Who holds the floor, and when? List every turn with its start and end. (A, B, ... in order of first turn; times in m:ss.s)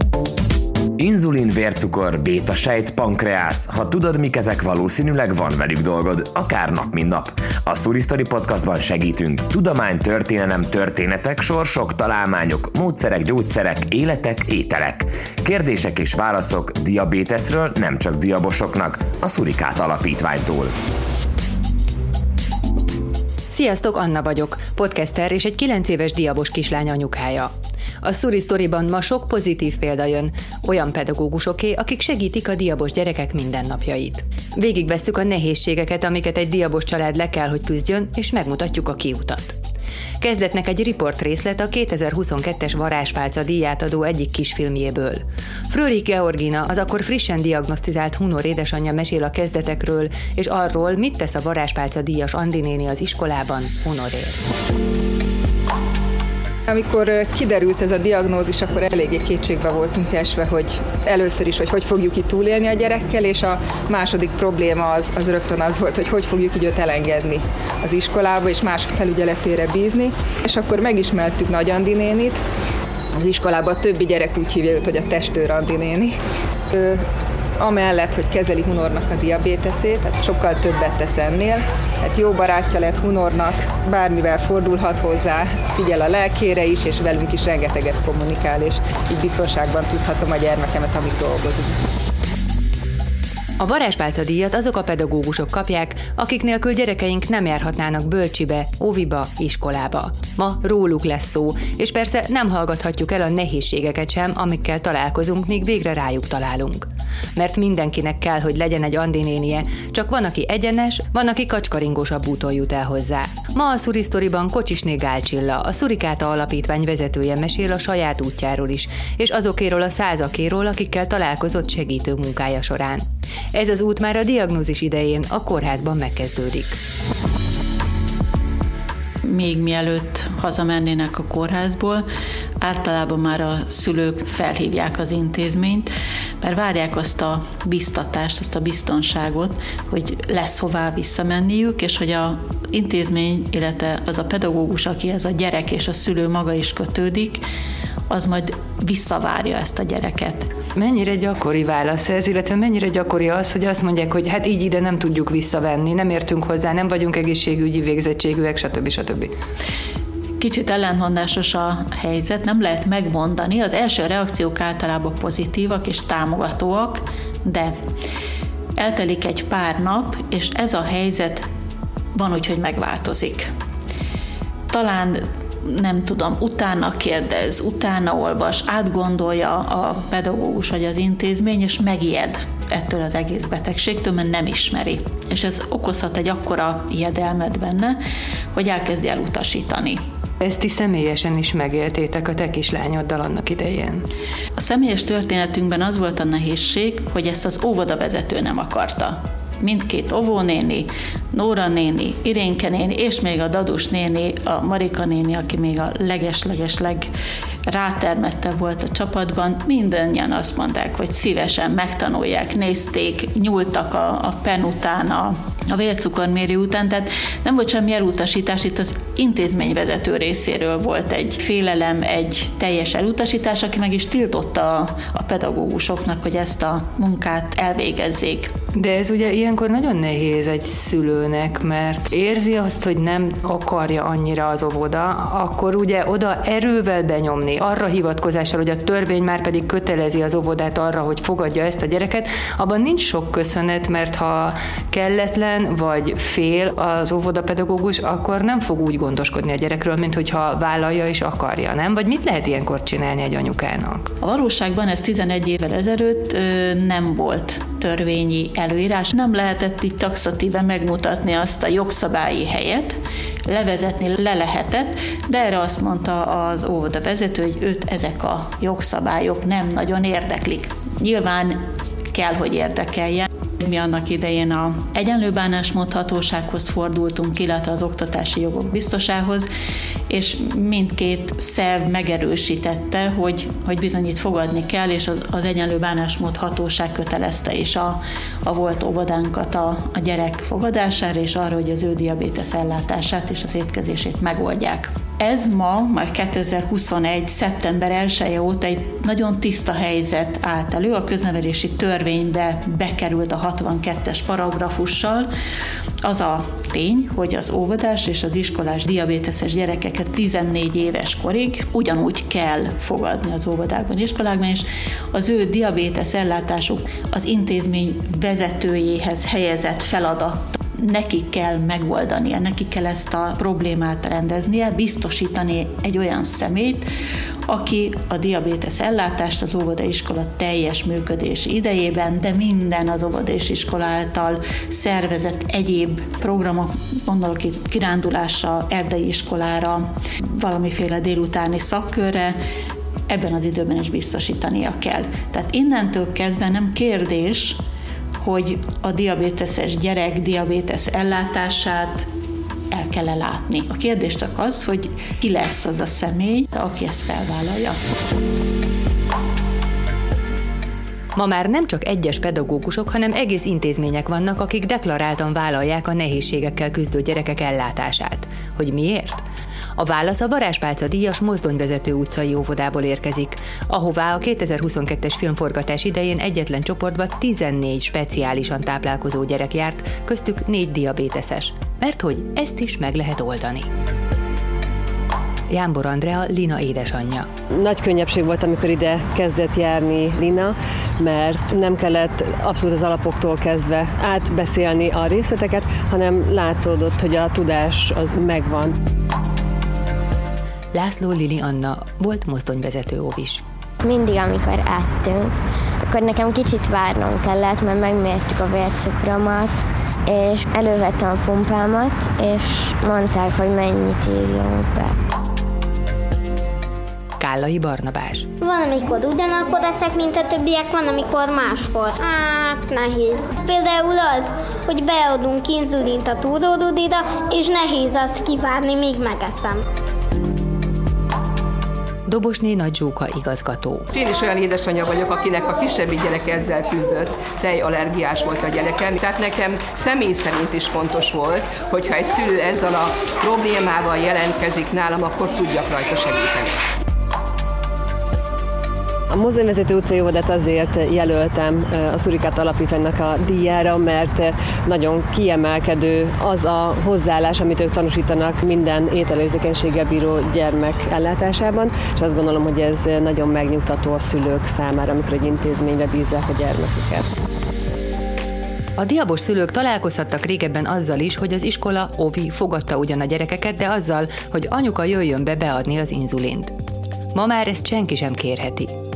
0:01.0-0:20.7 A
0:23.5-0:39.6 B
0:40.2-0:54.4 B
0:56.7-1:12.4 C
1:13.1-1:16.2 C
1:16.7-1:17.0 C
1:17.6-1:31.8 C
1:33.6-2:06.8 B
2:09.2-2:12.0 D
2:12.6-2:15.9 D
2:16.4-2:27.4 D
2:28.1-2:30.5 D
2:30.7-2:39.3 B
2:40.4-2:47.7 D
2:48.8-2:51.4 D
2:52.1-2:53.5 D
2:54.7-3:08.0 D
3:08.5-3:10.0 D
3:10.4-3:14.0 B
3:14.6-3:27.1 D
3:27.7-3:48.5 D
3:48.7-4:14.1 B
4:14.2-4:39.5 D
4:40.1-5:05.3 D
5:06.0-5:26.8 D
5:27.5-5:42.4 D
5:43.1-5:47.6 D
5:48.2-5:52.1 D
5:52.7-5:57.8 D
6:01.1-6:09.2 B
6:09.8-6:23.7 B
6:25.5-6:27.3 B
6:27.5-6:38.8 E
6:40.7-6:43.4 B
6:43.8-6:45.3 F
6:45.8-6:54.9 F
6:57.2-6:58.3 B
6:58.4-7:09.6 G
7:12.1-7:13.9 B
7:13.9-7:26.5 H
7:29.1-7:47.1 E
7:48.8-7:56.5 B
7:57.1-7:58.7 B